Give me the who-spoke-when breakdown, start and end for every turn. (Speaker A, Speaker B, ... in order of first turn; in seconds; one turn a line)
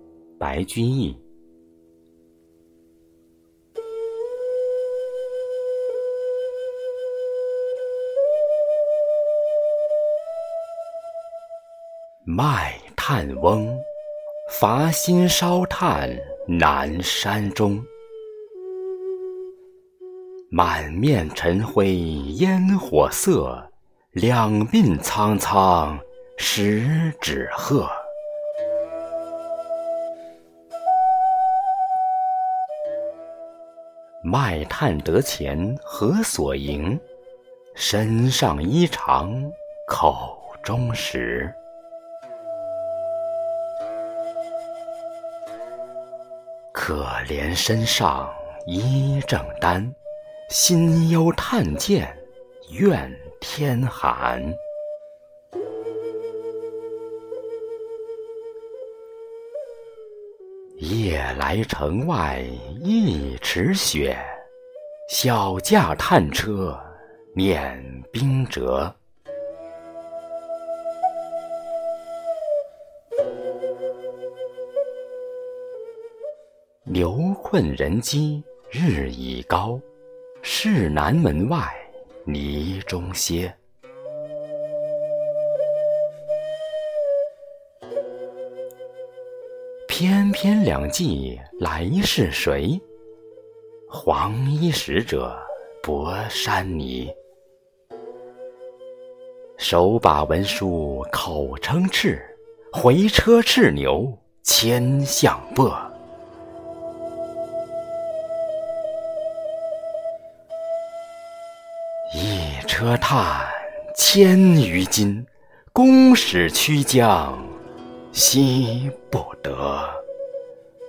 Speaker A: 0.4-1.2
Speaker A: 12.2-13.9
Speaker A: 14.5-17.9
Speaker A: 20.5-28.1
Speaker A: 34.2-37.0
Speaker A: 37.7-41.6
Speaker A: 46.7-50.0
Speaker A: 50.5-54.6
Speaker A: 60.8-64.5
Speaker A: 65.1-69.0
Speaker A: 76.8-79.8
Speaker A: 80.4-83.6
Speaker A: 89.9-92.8
Speaker A: 93.9-97.2
Speaker A: 99.6-106.0
Speaker A: 112.1-117.6
Speaker A: 118.1-120.0